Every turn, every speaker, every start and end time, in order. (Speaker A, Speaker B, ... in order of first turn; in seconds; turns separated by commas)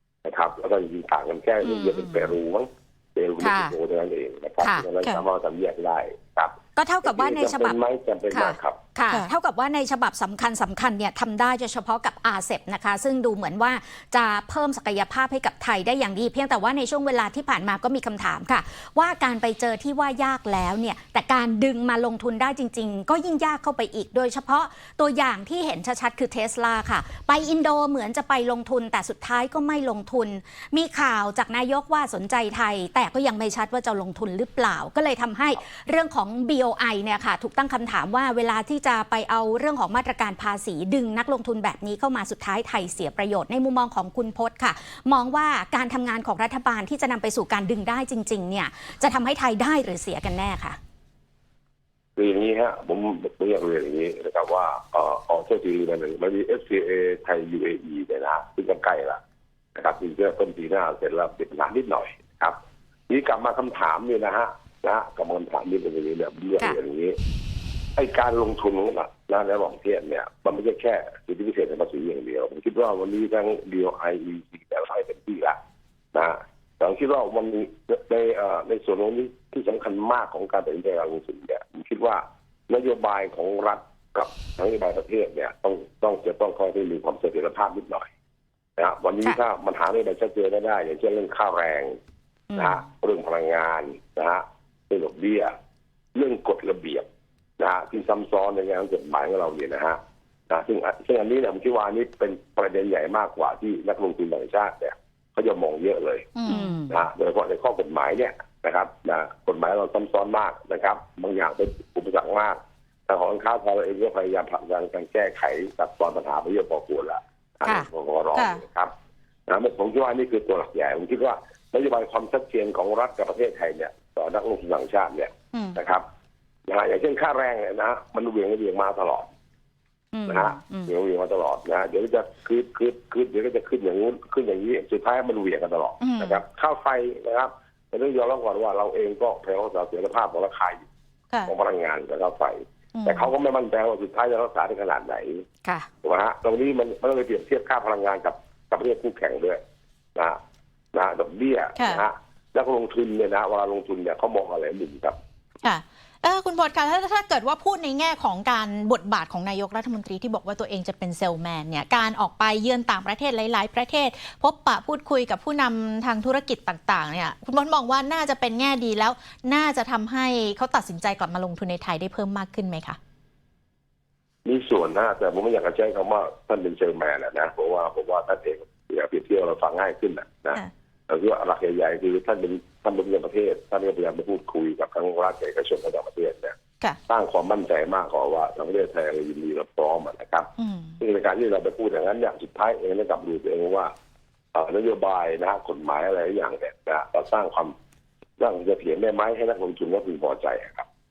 Speaker A: 0.2-8.8, Speaker B: 1.6-2.3, Speaker B: 3.4-3.7, Speaker B: 4.6-4.8, Speaker B: 6.8-7.8, Speaker B: 8.3-50.8, Speaker A: 52.2-59.2, Speaker A: 59.7-62.6, Speaker A: 63.1-67.2, Speaker A: 68.0-75.6, Speaker A: 76.1-88.1, Speaker A: 88.8-92.0, Speaker B: 92.5-92.8, Speaker A: 92.5-95.5, Speaker A: 96.1-97.0, Speaker A: 97.6-106.3, Speaker C: 106.3-106.8, Speaker B: 106.5-107.0, Speaker A: 106.9-118.9, Speaker C: 118.3-118.6, Speaker A: 119.5-126.0, Speaker A: 126.7-129.3, Speaker B: 130.1-130.9, Speaker A: 130.2-140.8, Speaker C: 136.0-136.4, Speaker A: 141.4-145.4, Speaker C: 142.9-143.3, Speaker A: 146.0-149.6, Speaker A: 150.9-155.2, Speaker C: 151.8-152.0, Speaker C: 155.6-173.0, Speaker A: 174.4-186.5, Speaker A: 187.1-193.9, Speaker C: 190.6-191.0, Speaker A: 194.5-197.7, Speaker A: 198.4-200.9